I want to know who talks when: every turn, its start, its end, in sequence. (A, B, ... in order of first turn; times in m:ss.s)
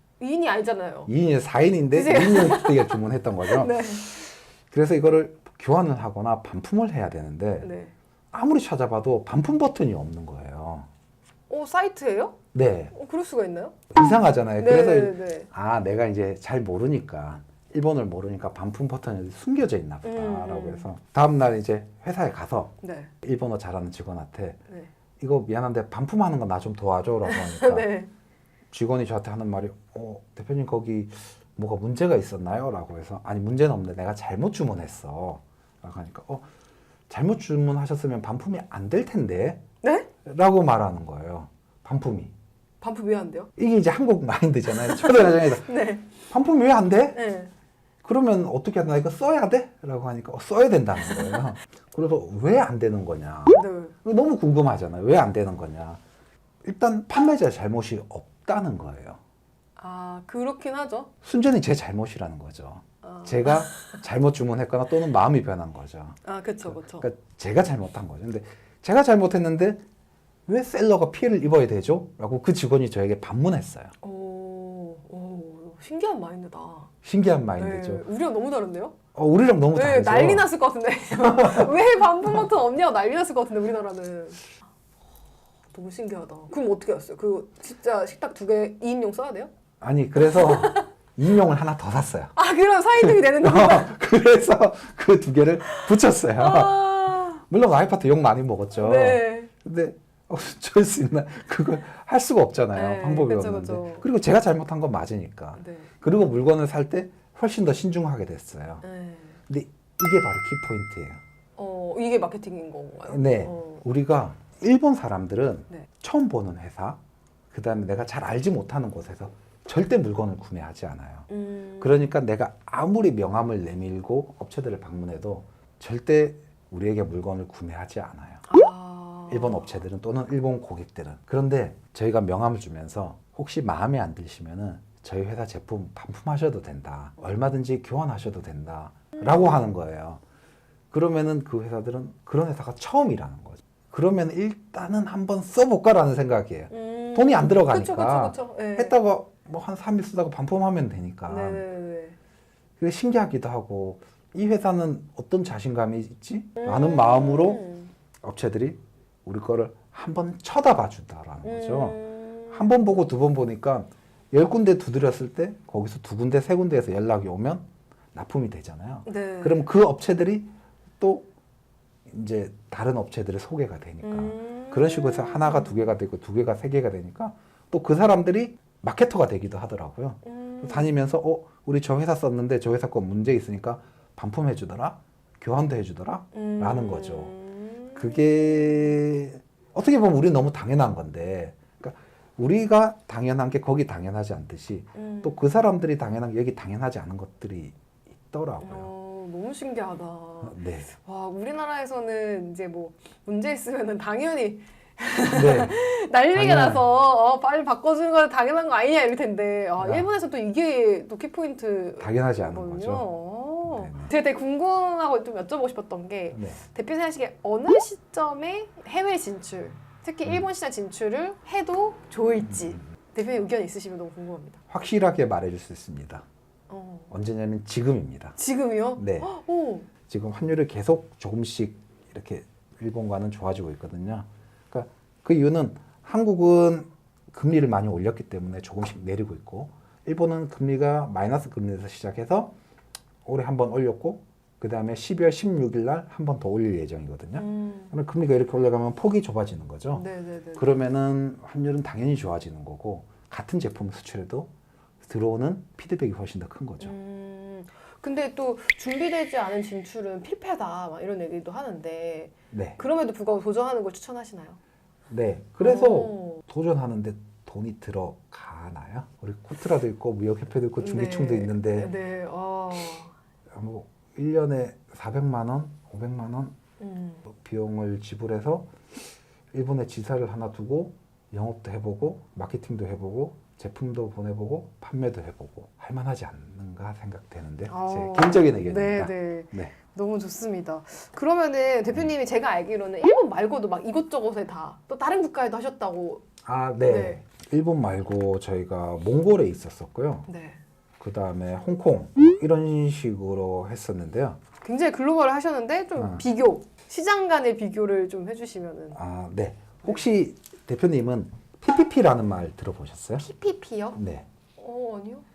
0:00.2-0:01.1 A
0:01.1-0:07.7 B
0:01.9-0:04.1 A
0:07.6-0:07.9 A
0:08.3-0:10.9 B
0:11.5-0:12.4 A
0:12.5-0:12.9 B
0:12.9-0:13.9 A
0:13.9-0:24.6 B
0:14.6-0:15.5 A
0:20.0-0:20.9 A
0:22.8-0:23.1 A
0:25.2-0:27.9 B
0:27.2-0:28.1 A
0:28.7-0:36.4 B
0:37.1-0:39.6 B
0:39.8-0:40.1 A
0:40.2-0:42.3 B
0:42.8-0:43.5 A
0:43.6-0:45.7 B
0:44.7-0:46.0 A
0:46.3-0:47.2 B
0:47.1-0:47.5 A
0:48.0-0:56.0 B
0:53.5-0:53.9 A
0:56.6-0:59.2 B
0:59.8-1:01.1 A
1:01.2-1:09.8 B
1:03.0-1:04.0 A
1:06.2-1:07.0 A
1:10.5-1:13.9 B
1:14.0-1:16.9 A
1:17.0-1:18.0 B
1:17.6-1:18.9 A
1:19.1-1:20.5 B
1:19.7-1:24.4 A
1:21.2-1:21.8 B
1:25.7-1:29.5 A
1:29.8-1:32.3 B
1:30.2-1:30.9 A
1:32.4-1:33.9 A
1:33.0-1:48.8 B
1:35.7-1:37.4 A
1:38.7-1:39.5 A
1:42.7-1:44.0 A
1:45.6-1:45.9 A
1:48.8-1:49.4 A
1:49.5-1:51.2 B
1:51.6-1:53.8 A
1:53.1-1:57.0 B
1:57.5-2:01.3 B
2:01.3-2:02.1 A
2:01.8-2:08.5 B
2:08.5-2:09.8 A
2:09.3-2:20.2 B
2:19.2-2:19.6 A
2:20.9-2:31.6 B
2:26.7-2:29.0 A
2:31.3-2:32.1 A
2:32.8-2:37.6 B
2:36.6-2:37.9 A
2:38.2-2:42.0 B
2:41.4-2:42.8 A
2:42.5-2:51.3 B
2:49.0-2:49.6 A
2:52.1-3:07.3 B
2:54.0-2:55.8 A
3:00.2-3:00.9 A
3:06.3-3:09.0 A
3:07.9-3:17.7 B
3:15.0-3:15.4 A
3:18.3-3:18.9 B
3:18.6-3:44.6 A
3:20.4-3:20.9 B
3:25.3-3:25.8 B
3:26.3-3:26.9 B
3:29.8-3:30.1 B
3:32.0-3:33.0 B
3:33.6-3:34.1 B
3:36.3-3:36.6 B
3:44.7-3:46.2 B
3:46.7-3:47.1 A
3:47.1-3:48.4 B
3:48.4-3:49.9 A
3:49.0-3:49.3 B
3:50.1-4:02.5 B
4:03.2-4:10.0 B
4:07.4-4:07.9 A
4:09.9-4:10.7 A
4:10.6-4:14.5 B
4:15.0-4:16.9 B
4:16.8-4:24.6 A
4:22.5-4:22.8 B
4:25.1-4:31.9 B
4:25.6-4:26.4 A
4:30.8-4:33.1 A
4:33.5-4:36.5 B
4:36.8-4:37.2 A
4:37.3-4:38.7 B
4:39.5-4:49.7 B
4:47.7-4:56.2 A
4:56.4-5:00.3 B
4:56.8-4:57.2 A
5:00.3-5:00.6 A
5:01.0-5:04.4 B
5:04.6-5:09.0 A
5:06.0-5:06.2 B
5:08.9-5:13.2 B
5:13.2-5:14.0 A
5:13.9-5:14.2 B
5:14.6-5:15.2 A